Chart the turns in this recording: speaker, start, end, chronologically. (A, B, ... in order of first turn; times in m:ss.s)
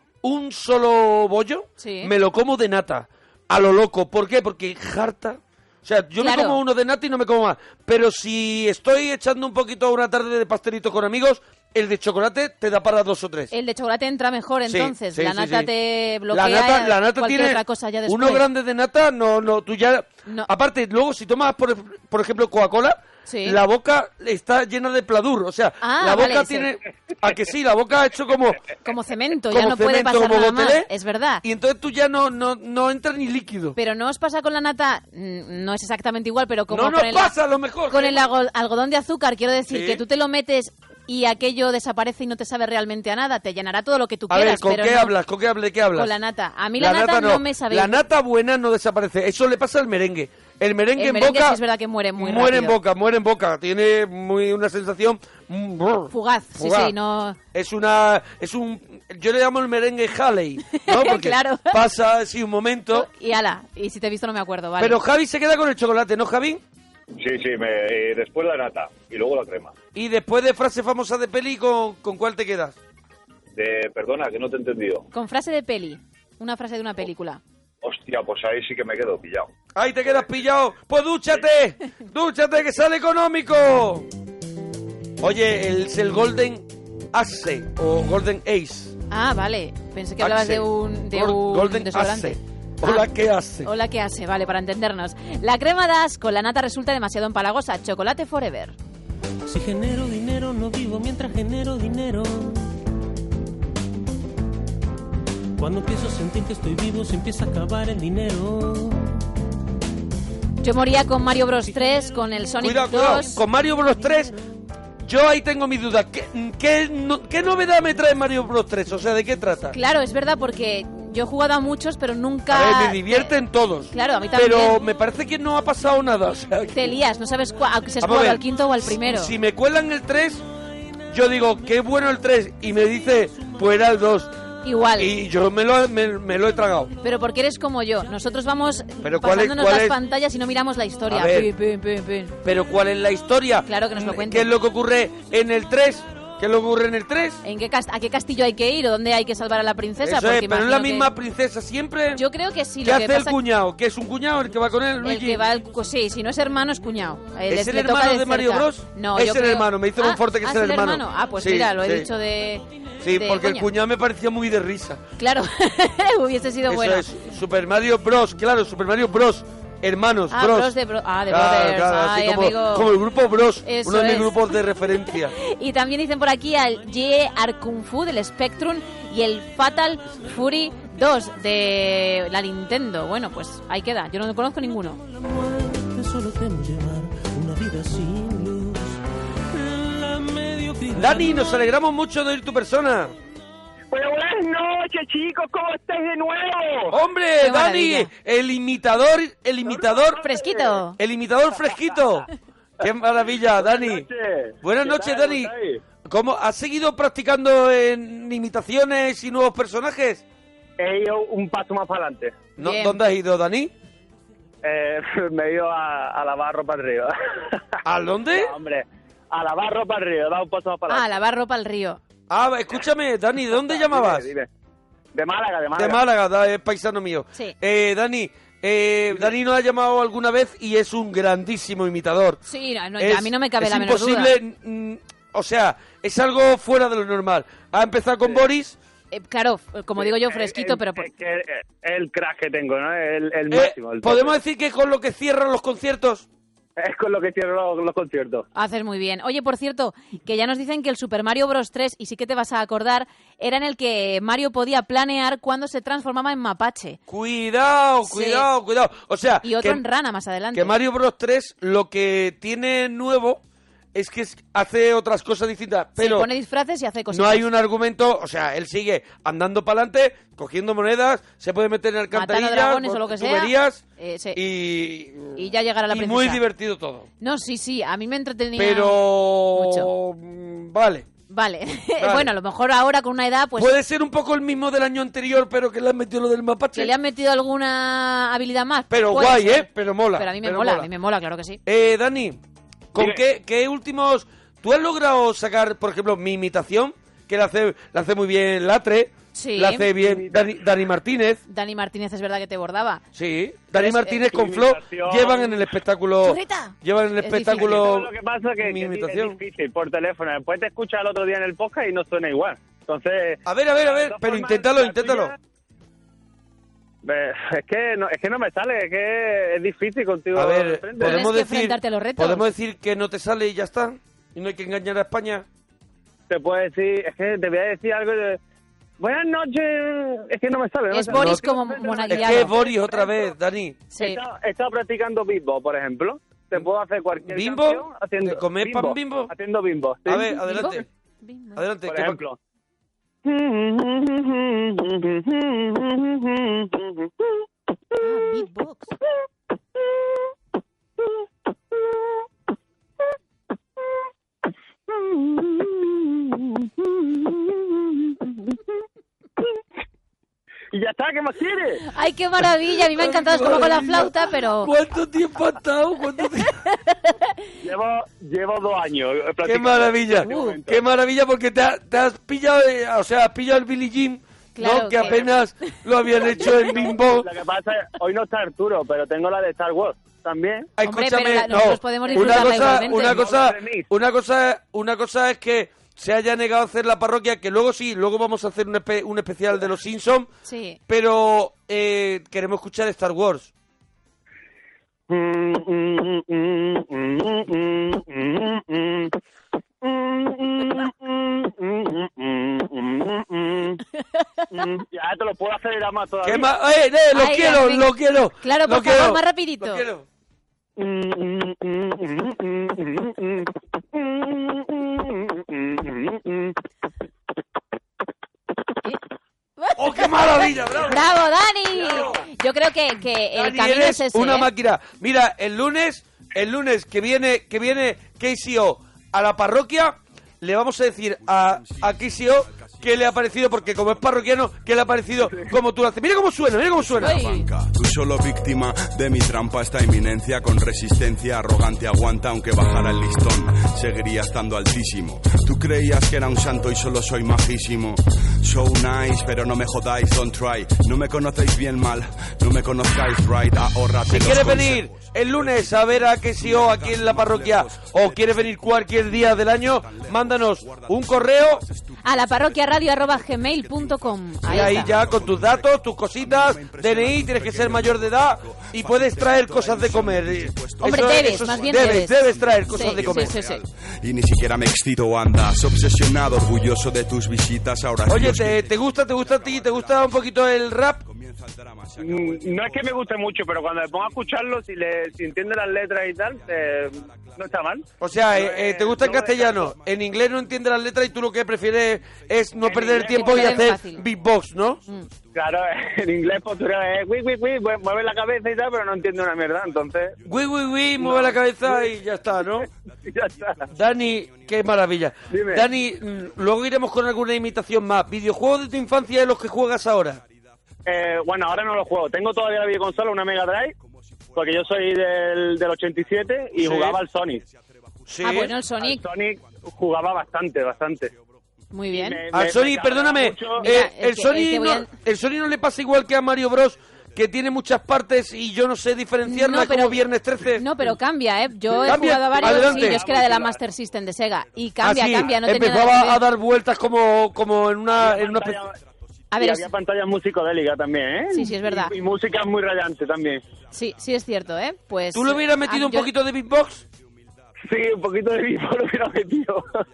0:00.2-0:13.5 A
0:01.8-0:02.1 B
0:06.2-0:06.6 B
0:13.5-0:18.4 B
0:14.7-0:15.7 A
0:16.3-0:28.6 A
0:23.3-0:23.6 B
0:25.8-0:26.7 B
0:28.8-0:31.4 B
0:29.5-0:30.9 A
0:31.4-0:33.8 A
0:33.8-0:37.3 B
0:36.7-0:38.2 A
0:37.9-0:45.1 B
0:39.7-0:40.0 A
0:44.3-0:46.1 A
0:46.0-0:47.9 B
0:46.8-0:51.6 A
0:51.0-0:52.8 B
0:52.2-0:56.9 A
0:56.1-0:57.4 B
0:57.5-1:03.1 A
1:00.7-1:01.8 B
1:02.9-1:05.0 B
1:04.8-1:06.6 A
1:07.2-1:09.7 C
1:09.9-1:12.8 A
1:13.5-1:15.1 C
1:15.1-1:17.4 B
1:17.8-1:19.5 C
1:19.8-1:24.1 A
1:20.0-1:20.5 C
1:25.2-1:29.0 A
1:29.1-1:33.0 B
1:30.2-1:33.7 A
1:33.6-1:38.8 B
1:39.5-1:42.8 D
1:45.6-1:49.3 D
1:50.6-1:53.4 B
1:51.4-1:54.4 D
1:52.6-1:54.3 A
1:55.0-1:59.8 A
1:59.7-2:03.3 B
2:02.5-2:06.9 A
2:03.9-2:04.8 B
2:06.7-2:09.3 B
2:08.0-2:10.4 A
2:11.1-2:14.3 A
2:14.6-2:15.1 B
2:15.0-2:16.9 A
2:17.0-2:22.3 B
2:19.0-2:20.0 A
2:21.1-2:21.5 A
2:22.4-2:27.4 A
2:23.7-2:24.5 B
2:27.4-2:31.1 B
2:30.0-2:32.2 A
2:32.2-2:33.4 B
2:32.8-2:35.4 A
2:35.0-2:42.6 B
2:37.5-2:42.1 A
2:43.0-2:45.0 A
2:43.2-2:43.7 B
2:45.2-2:47.1 B
2:46.7-2:50.7 A
2:50.3-2:52.9 B
2:51.3-2:55.3 A
2:53.6-2:54.4 B
2:55.4-3:05.0 B
3:05.0-3:09.0 D
3:09.5-3:11.6 D
3:11.0-3:13.1 A
3:13.9-3:17.0 E
3:16.9-3:20.2 A
3:17.4-3:18.1 B
3:19.7-3:20.7 E
3:20.2-3:21.0 B
3:21.0-3:22.3 A
3:22.8-3:24.1 A
3:23.6-3:25.8 E
3:24.6-3:25.5 A
3:26.0-3:30.2 A
3:30.8-3:32.4 E
3:32.6-3:33.7 A
3:32.6-3:33.0 B
3:34.6-3:37.6 E
3:37.8-3:38.5 A
3:38.3-3:41.1 E
3:40.9-3:42.0 B
3:42.3-3:44.3 A
3:43.5-3:44.5 E
3:45.1-3:46.0 E
3:45.8-3:52.4 A
3:52.4-3:54.3 B
3:53.0-3:58.8 A
3:59.1-4:01.1 B
4:00.0-4:04.4 E
4:03.5-4:06.3 A
4:06.8-4:08.5 E
4:08.5-4:17.0 B
4:17.1-4:19.8 A
4:18.0-4:18.5 B
4:19.4-4:20.7 B
4:20.5-4:23.4 A
4:23.9-4:26.3 A
4:26.0-4:27.5 B
4:27.1-4:33.8 A
4:32.1-4:34.4 B
4:34.4-4:37.1 A
4:35.4-4:36.4 B
4:37.2-4:39.0 B
4:38.6-4:41.1 A
4:39.5-4:39.9 B
4:41.3-4:43.8 B
4:42.0-4:42.3 A
4:43.6-4:46.9 A
4:46.7-4:51.6 B
4:48.9-4:50.9 A
4:51.7-4:52.4 A
4:52.9-5:01.4 A
4:59.4-4:59.9 B
5:00.0-5:00.5 E
5:01.5-5:03.0 B
5:03.1-5:09.4 A
5:03.8-5:04.2 B
5:04.1-5:05.7 E
5:06.2-5:07.9 B
5:07.6-5:15.4 E
5:13.4-5:15.4 A
5:17.0-5:21.2 E
5:20.3-5:25.5 A
5:21.0-5:22.5 B
5:26.3-5:28.4 E
5:29.0-5:33.3 E
5:30.9-5:32.6 B
5:31.1-5:31.4 A
5:32.1-5:33.8 A
5:33.9-5:34.2 B
5:34.0-5:40.4 E
5:37.2-5:39.3 A
5:40.1-5:40.9 A
5:40.4-5:41.6 B
5:41.6-5:42.2 A
5:41.9-5:42.4 E
5:43.2-5:47.4 E
5:48.0-5:48.9 B
5:49.8-5:50.1 E
5:51.7-5:52.2 E
5:54.9-5:58.7 E
6:00.7-6:01.8 E
6:01.9-6:04.7 B
6:02.8-6:06.5 A
6:06.9-6:07.2 B
6:07.6-6:10.8 E
6:09.4-6:17.3 A
6:10.2-6:10.6 B
6:14.6-6:15.4 B
6:16.3-6:16.9 B
6:16.3-6:20.7 E
6:20.8-6:30.3 A
6:20.8-6:23.3 B
6:22.2-6:23.9 E
6:30.4-6:30.8 B
6:30.9-6:33.5 A
6:35.1-6:39.2 E
6:39.8-6:43.8 E
6:44.5-6:46.5 E
6:46.2-6:50.1 A
6:47.1-6:49.8 B
6:50.8-6:56.6 E
6:59.6-7:04.5 B
6:59.8-7:01.1 A
7:01.8-7:02.2 A
7:03.3-7:17.3 A
7:11.2-7:14.5 F
7:16.5-8:04.4 F
7:17.0-7:17.5 B
7:34.1-7:41.6 A
7:42.0-7:45.0 B
7:44.4-7:53.4 A
7:50.8-7:53.6 B
7:58.1-8:01.0 A
8:02.0-8:09.7 E
8:06.1-8:07.6 F
8:08.0-8:14.8 A
8:08.8-8:11.0 F
8:11.7-8:12.9 F
8:12.6-8:13.6 E
8:13.0-8:14.1 B
8:14.0-8:15.4 F
8:15.3-8:20.2 E
8:19.7-8:22.3 F
8:20.2-8:22.7 A
8:21.0-8:21.9 E
8:22.9-8:25.1 F
8:23.1-8:23.7 E
8:23.7-8:30.2 A
8:25.3-8:25.7 E
8:30.1-8:30.8 F
8:30.9-8:33.8 E
8:33.8-8:35.0 F
8:34.4-8:37.4 E
8:36.6-8:37.0 A
8:37.4-8:38.5 F
8:38.1-8:38.5 A
8:38.2-8:39.1 B
8:38.8-8:41.1 E
8:39.4-8:39.8 F
8:40.9-8:41.4 F
8:41.7-8:42.2 B
8:41.9-8:43.7 E
8:42.3-8:50.7 A
8:43.6-8:44.9 B
8:46.7-8:47.2 F
8:49.2-8:56.2 B
8:51.9-8:53.0 A
8:51.9-8:53.6 E
8:53.9-8:55.8 F
8:54.8-8:58.6 A
8:57.9-8:58.8 E
8:58.6-8:59.3 F
8:59.3-8:59.7 B
8:59.4-9:03.4 E
9:01.3-9:01.9 B
9:03.0-9:04.8 F
9:03.7-9:06.1 B
9:05.1-9:06.8 A
9:06.5-9:07.6 F
9:07.6-9:09.9 E